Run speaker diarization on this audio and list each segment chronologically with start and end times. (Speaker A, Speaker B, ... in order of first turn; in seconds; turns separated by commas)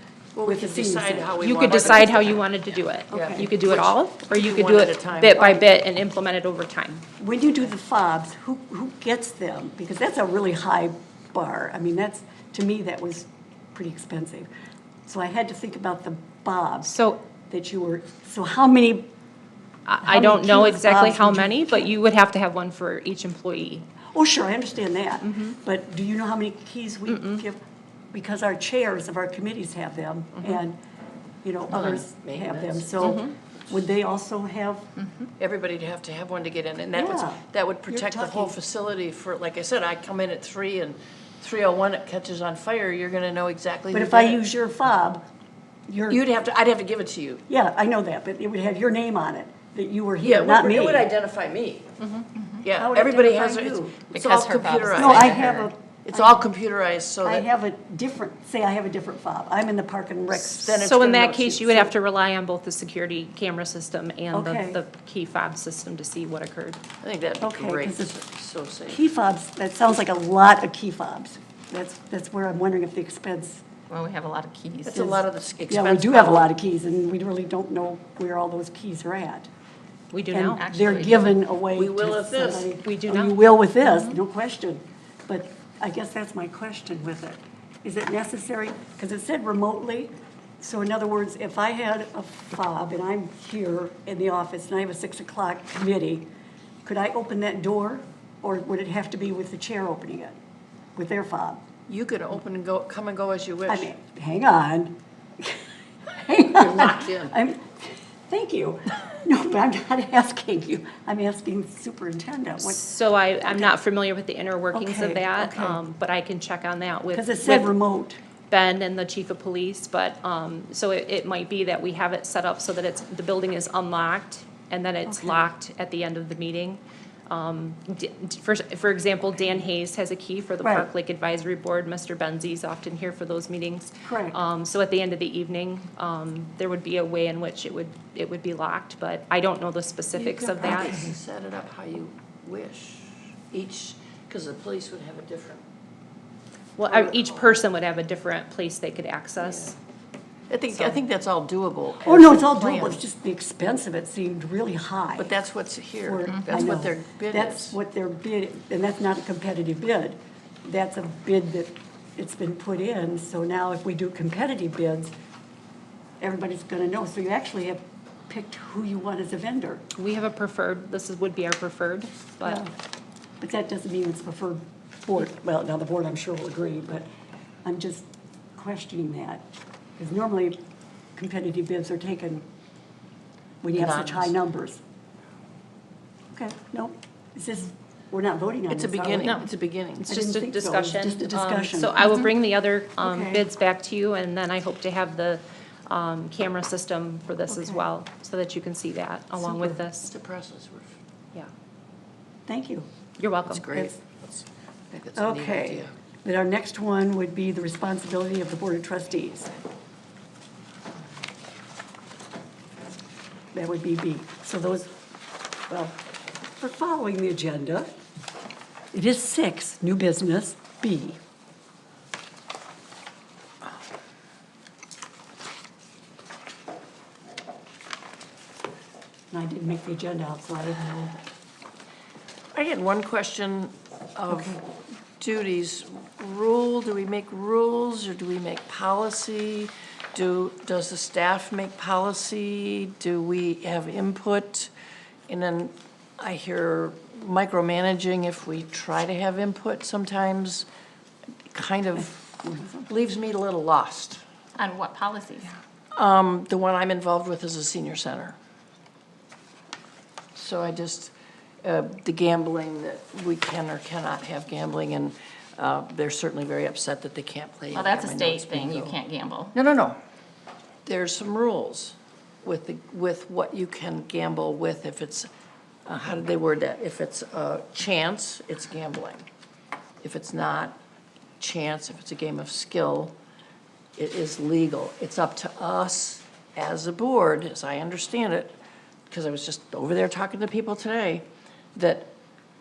Speaker A: 0.3-2.5, Speaker B: 0.4-2.1, Speaker C: 1.4-7.0, Speaker A: 3.1-5.5, Speaker B: 3.1-3.5, Speaker B: 5.4-5.6, Speaker B: 7.2-14.5, Speaker B: 15.1-16.9, Speaker C: 16.8-17.2, Speaker B: 17.5-19.1, Speaker C: 19.9-23.9, Speaker B: 20.0-21.9, Speaker B: 24.1-27.6, Speaker C: 25.2-25.6, Speaker C: 27.1-27.4, Speaker B: 28.1-30.8, Speaker B: 31.4-34.9, Speaker A: 31.7-33.3, Speaker C: 33.0-33.3, Speaker D: 35.0-35.3, Speaker A: 35.4-44.5, Speaker B: 36.9-38.6, Speaker B: 43.9-45.2, Speaker B: 45.9-46.2, Speaker A: 46.1-47.4, Speaker B: 47.5-51.1, Speaker A: 50.2-52.0, Speaker C: 52.0-52.2, Speaker A: 52.6-57.5, Speaker B: 52.8-53.9, Speaker D: 54.1-55.6, Speaker B: 54.9-56.5, Speaker B: 57.2-60.8, Speaker A: 60.3-61.9, Speaker C: 60.7-66.8, Speaker B: 64.3-64.8, Speaker A: 67.0-69.0, Speaker B: 67.4-68.1, Speaker B: 68.9-73.6, Speaker D: 73.9-75.1, Speaker A: 74.9-76.5, Speaker B: 74.9-79.5, Speaker C: 80.1-80.6, Speaker B: 80.3-96.3, Speaker D: 80.5-81.4, Speaker A: 81.7-82.8, Speaker C: 82.8-84.2, Speaker B: 96.8-100.4, Speaker B: 101.0-101.6, Speaker A: 101.9-103.9, Speaker B: 103.7-112.8, Speaker A: 106.3-107.4, Speaker C: 112.6-117.7, Speaker B: 113.4-113.7, Speaker B: 114.7-115.8, Speaker B: 117.1-118.2, Speaker C: 118.5-141.1, Speaker B: 125.1-125.5, Speaker B: 130.6-130.9, Speaker B: 134.0-134.4, Speaker A: 140.2-145.6, Speaker C: 146.8-149.8, Speaker A: 146.9-147.6, Speaker A: 150.5-153.0, Speaker B: 152.0-155.3, Speaker A: 155.2-157.8, Speaker B: 156.0-165.1, Speaker D: 156.3-156.7, Speaker B: 166.2-169.8, Speaker C: 169.9-172.6, Speaker B: 172.4-172.7, Speaker B: 173.4-177.1, Speaker B: 177.6-179.4, Speaker B: 180.0-180.6, Speaker B: 181.1-182.4, Speaker B: 183.6-184.8, Speaker A: 183.8-184.3, Speaker B: 186.3-189.4, Speaker A: 188.7-190.1, Speaker C: 190.0-200.1, Speaker B: 190.1-192.3, Speaker B: 193.0-193.4, Speaker B: 197.5-197.8, Speaker B: 199.4-199.8, Speaker A: 200.0-201.0, Speaker B: 202.5-202.9, Speaker C: 203.2-203.7, Speaker A: 203.4-205.9, Speaker B: 205.1-209.5, Speaker B: 213.5-214.9, Speaker B: 215.7-215.9, Speaker B: 216.6-217.9, Speaker B: 218.9-221.2, Speaker B: 229.3-231.2, Speaker A: 232.5-234.6, Speaker B: 234.3-234.6, Speaker A: 235.2-244.7, Speaker A: 245.3-250.7, Speaker A: 251.5-254.2, Speaker B: 252.4-252.8, Speaker D: 254.6-255.6, Speaker A: 255.9-258.4, Speaker A: 260.3-268.9, Speaker D: 267.7-269.5, Speaker A: 269.5-270.0, Speaker A: 270.8-275.3, Speaker A: 275.9-279.2, Speaker A: 280.0-280.8, Speaker A: 281.4-283.1, Speaker A: 284.0-288.6, Speaker A: 289.1-292.1